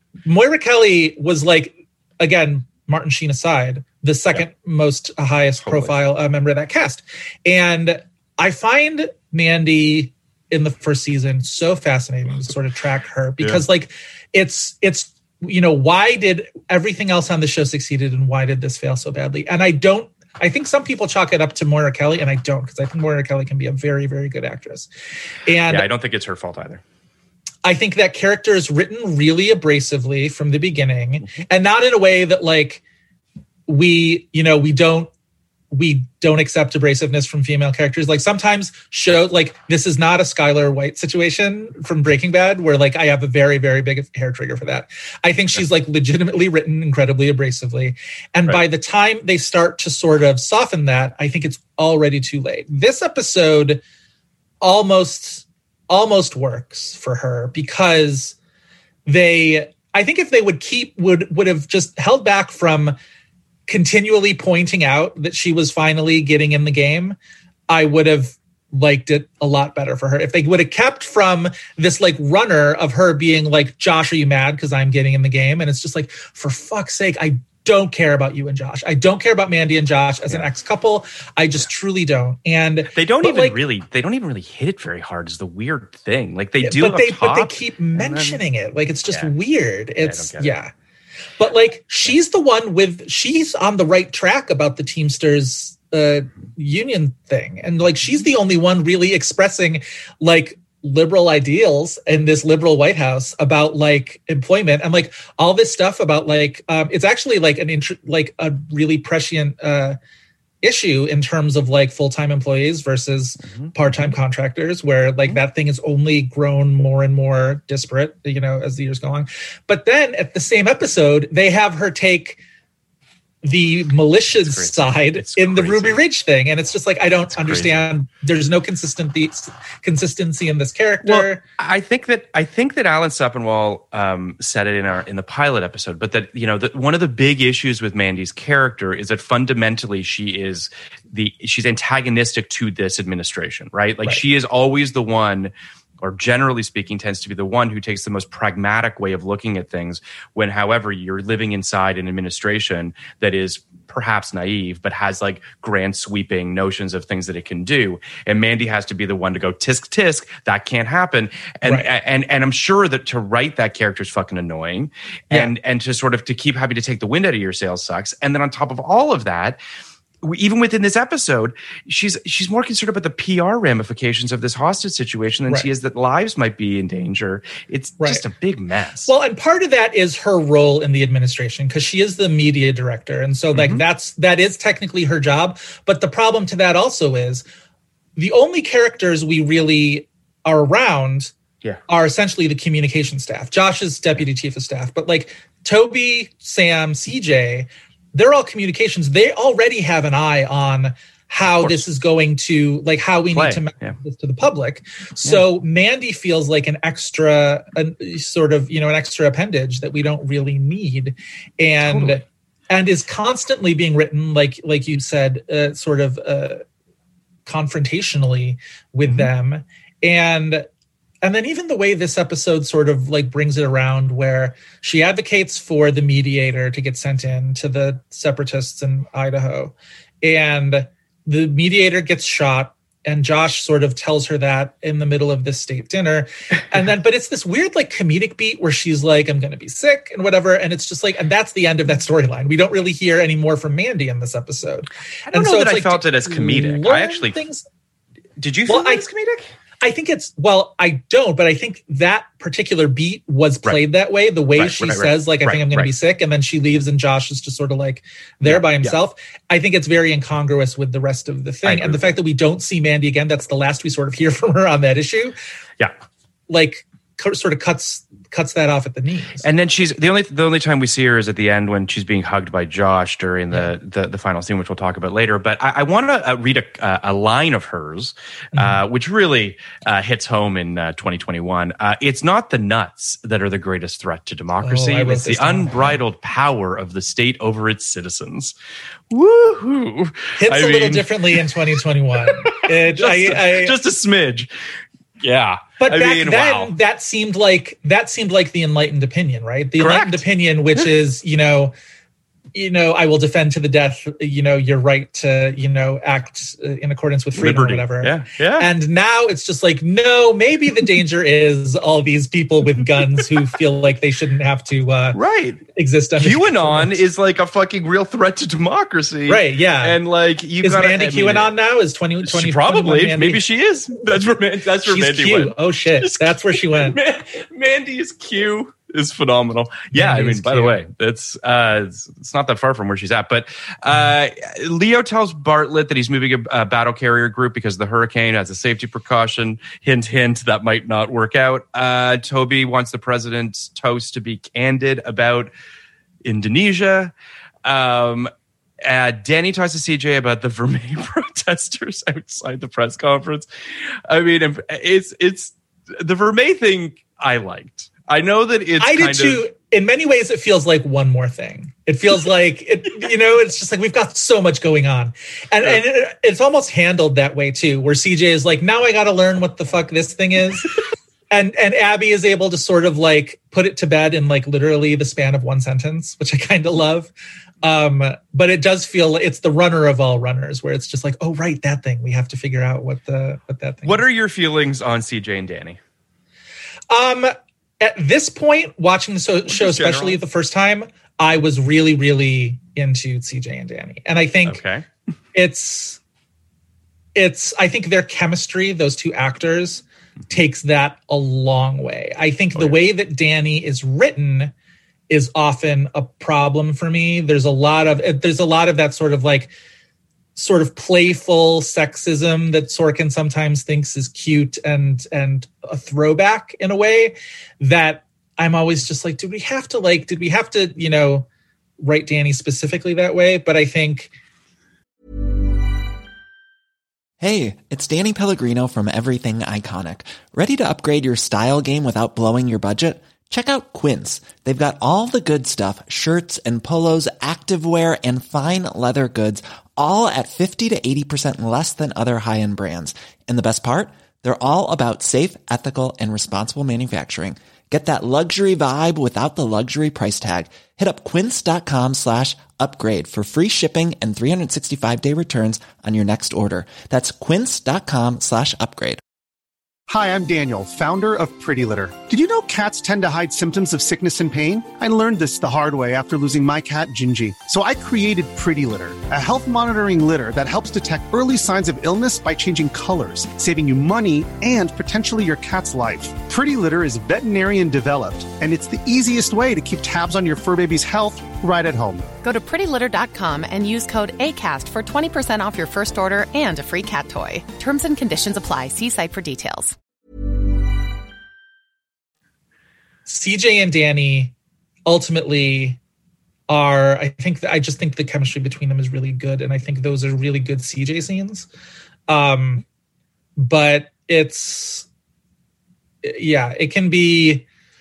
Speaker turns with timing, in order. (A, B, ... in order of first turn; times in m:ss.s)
0:00.2-0:24.9 A
0:05.6-0:05.9 B
0:13.4-0:13.6 B
0:25.4-0:25.9 A
0:25.6-0:26.8 B
0:27.6-0:32.8 A
0:33.7-0:35.1 A
0:35.7-0:53.8 A
0:54.6-0:58.3 A
0:59.0-1:03.0 A
1:03.7-1:07.2 A
1:07.7-1:23.6 A
1:22.9-1:28.4 B
1:26.6-1:30.7 A
1:29.1-1:29.3 B
1:30.0-1:30.5 B
1:31.4-1:50.0 A
1:50.6-2:02.4 A
1:53.5-1:54.1 B
2:03.4-2:11.4 A
2:04.3-2:06.0 B
2:07.3-2:07.9 B
2:11.0-2:49.6 B
2:41.6-2:41.9 A
2:50.2-2:59.1 B
2:59.1-3:07.4 A
3:03.5-3:03.8 B
3:08.2-3:11.3 A
3:11.9-3:36.6 A
3:21.6-3:21.8 B
3:23.3-3:24.0 B
3:31.8-3:32.2 B
3:37.4-3:40.6 A
3:39.0-3:39.3 B
3:41.2-4:07.6 A
4:05.3-4:07.4 B
4:08.4-4:09.5 B
4:08.7-4:09.1 A
4:09.8-4:25.4 A
4:14.5-4:15.9 B
4:18.4-4:19.0 B
4:21.6-4:22.0 B
4:26.5-4:29.4 A
4:29.4-4:48.5 B
4:38.5-4:38.8 A
4:44.6-4:46.0 A
4:49.1-4:51.4 B
4:50.4-4:53.8 A
4:52.4-4:54.5 B
4:55.2-4:56.7 B
4:55.8-5:01.7 A
4:59.8-5:00.2 B
5:02.5-5:15.2 A
5:07.3-5:08.7 B
5:15.1-5:15.6 B
5:15.7-5:16.9 A
5:16.2-5:21.5 B
5:19.3-5:20.0 A
5:20.6-5:23.4 A
5:22.2-5:45.5 B
5:24.8-5:27.0 A
5:29.9-5:30.8 A
5:46.2-5:47.1 B
5:47.6-5:48.3 B
5:48.8-5:53.5 B
5:54.1-5:59.4 B
5:58.8-6:10.7 A
6:11.3-6:17.1 A
6:17.6-6:24.0 A
6:23.8-6:25.8 B
6:26.9-6:34.6 A
6:29.5-6:30.2 B
6:34.4-6:34.9 B
6:35.3-6:36.0 A
6:37.1-6:44.5 A
6:42.5-6:42.8 B
6:45.1-6:49.5 A
6:50.4-7:01.2 A
7:01.8-7:04.1 A
7:07.2-7:39.0 C
7:39.9-8:02.0 D
8:02.2-8:09.8 E
8:13.0-8:14.3 A
8:14.8-8:15.8 A
8:16.5-8:21.5 A
8:22.1-8:22.6 A
8:23.4-8:24.9 A
8:26.0-8:27.4 A